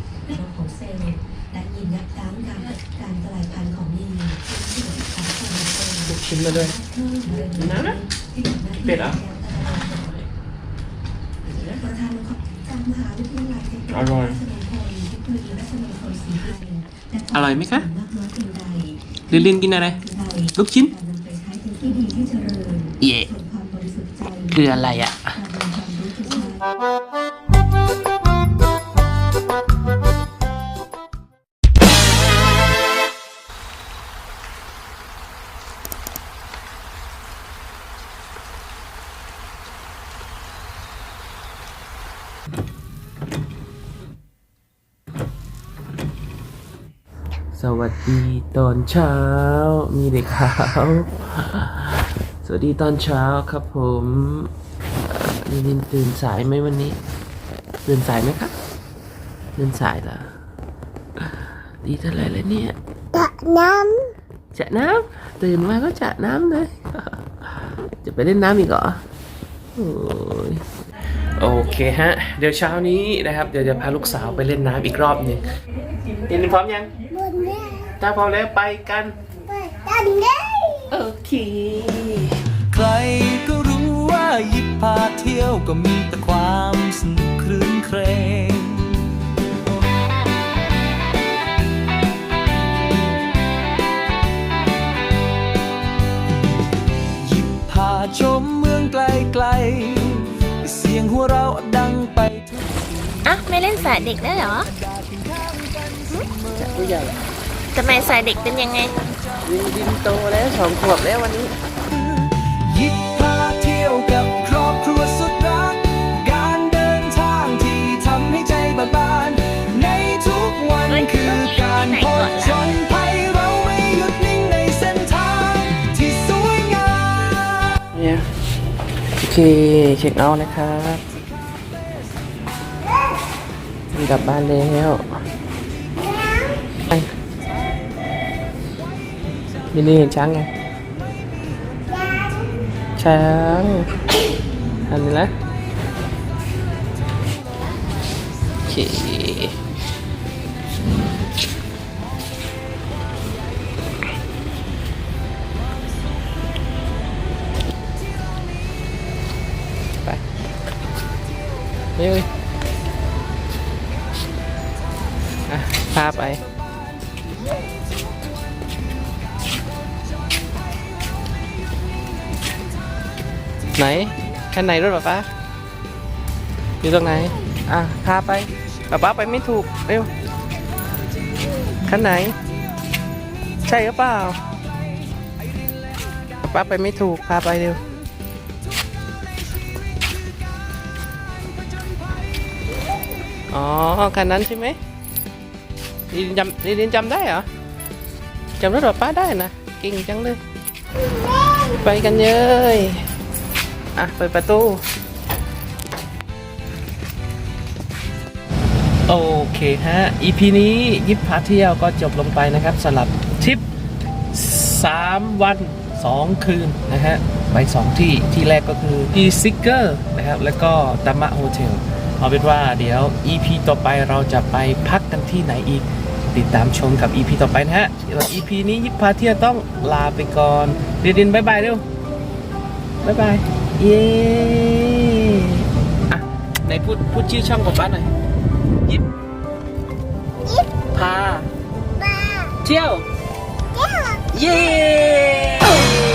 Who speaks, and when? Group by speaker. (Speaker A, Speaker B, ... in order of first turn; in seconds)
Speaker A: 0.3-5.7, 12.1-13.8, 14.5-16.8, 18.1-18.9, 21.1-22.9, 23.5-24.3, 25.6-26.5
Speaker B: 6.0-8.1, 8.7-10.2, 11.5-11.8, 13.9-14.5, 17.3-17.9, 19.3-21.0, 23.0-23.4, 24.5-25.4, 47.5-54.5, 55.1-57.0, 57.9-58.5, 59.5-60.3, 61.2-62.8, 64.5-67.2, 68.0-69.0, 69.8-70.6, 71.4-75.5, 76.2-76.9, 78.0-79.2, 80.9-82.3, 106.6-107.2, 109.4-111.5, 127.9-128.2, 129.2-131.0, 133.9-135.1, 136.9-137.1, 139.7-140.5, 143.0-143.9, 144.9-145.3, 148.7-149.6, 162.0-162.3, 165.5-166.4, 173.8-175.2, 176.8-180.1, 181.8-182.3, 183.6-184.5, 186.4-187.9, 193.5-194.8, 196.1-197.5, 198.6-200.4, 201.7-203.1, 203.9-204.8, 209.1-213.6, 214.3-231.8, 233.0-238.1, 240.9-241.5, 242.6-243.1, 244.3-245.9
Speaker C: 63.2-64.0, 103.2-104.7, 107.7-109.0, 120.9-122.8
Speaker D: 82.7-89.0, 97.2-103.3, 104.0-106.7, 112.5-127.8